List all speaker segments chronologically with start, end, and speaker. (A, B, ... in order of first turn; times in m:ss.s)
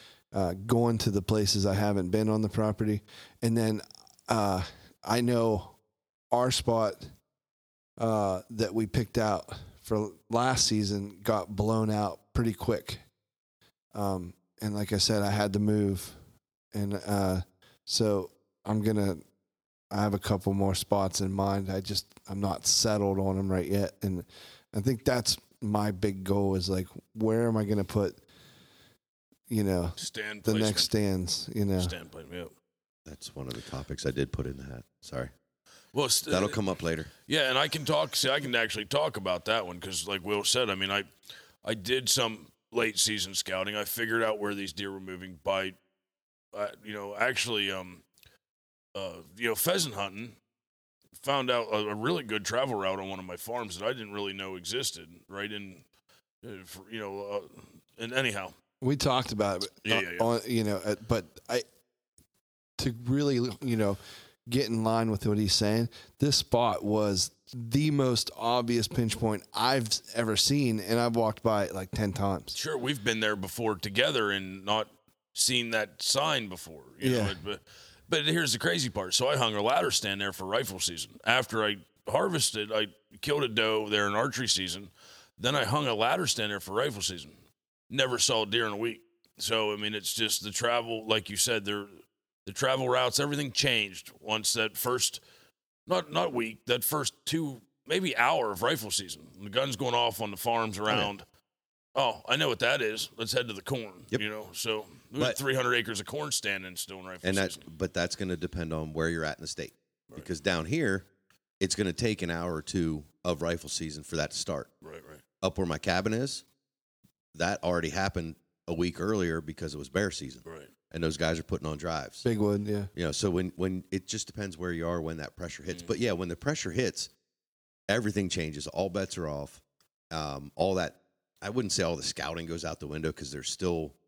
0:00.3-0:05.8 A
0:06.3-0:07.1 A
0:08.0-0:13.0 A
0:13.9-0:16.2 A
0:16.7-0:19.2 A
0:19.9-0:28.2 A
0:29.5-0:31.9 A
0:30.0-0:30.9 B
0:31.8-0:32.5 B
0:33.1-0:35.3 C
0:35.9-0:36.6 B
0:36.3-0:37.1 C
0:37.3-0:41.1 B
0:41.6-0:45.8 B
0:46.5-0:48.0 B
0:49.0-0:50.4 B
0:51.2-0:55.8 B
0:56.4-0:58.5 B
0:58.8-1:01.6 A
0:59.8-1:00.3 B
1:02.8-1:12.6 A
1:12.6-1:27.3 B
1:17.0-1:17.4 A
1:27.9-1:31.9 B
1:32.5-1:35.2 B
1:35.9-1:41.2 B
1:42.0-1:47.6 B
1:47.2-1:51.1 C
1:51.6-1:54.7 C
1:54.8-1:55.2 B
1:55.4-1:56.4 C
1:57.3-2:02.3 C
2:00.4-2:00.7 B
2:02.2-2:02.9 A
2:03.0-2:07.1 C
2:07.9-2:14.0 C